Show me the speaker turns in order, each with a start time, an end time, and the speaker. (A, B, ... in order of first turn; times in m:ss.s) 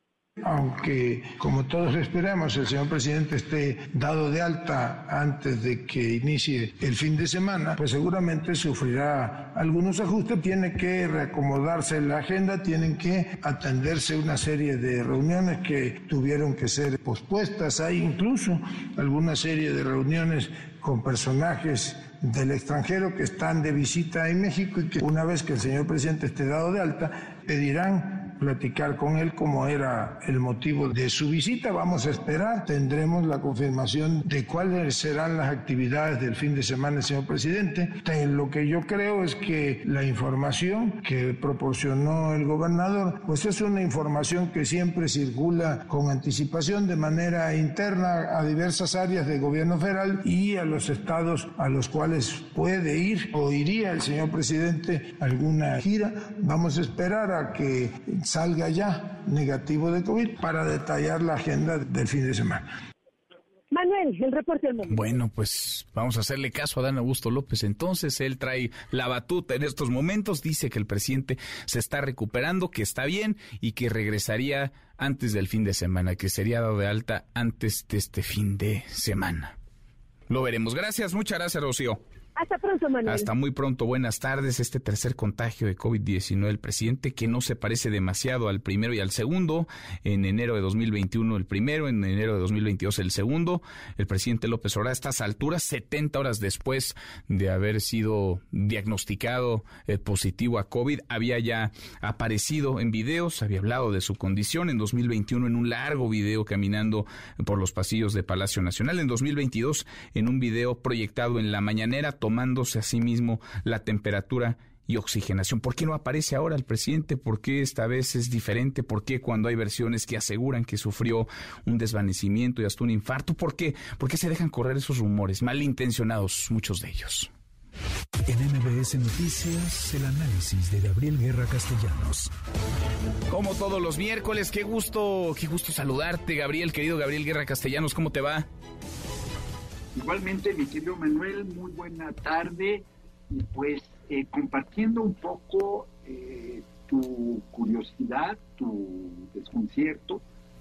0:00.4-1:02.6 A
1:03.7-1:05.0 B
1:04.9-1:19.5 C
1:20.3-1:22.0 C
1:22.4-1:23.3 B
1:23.0-2:07.3 C
2:08.3-2:12.3 D
2:13.3-2:18.5 C
2:19.9-2:30.2 E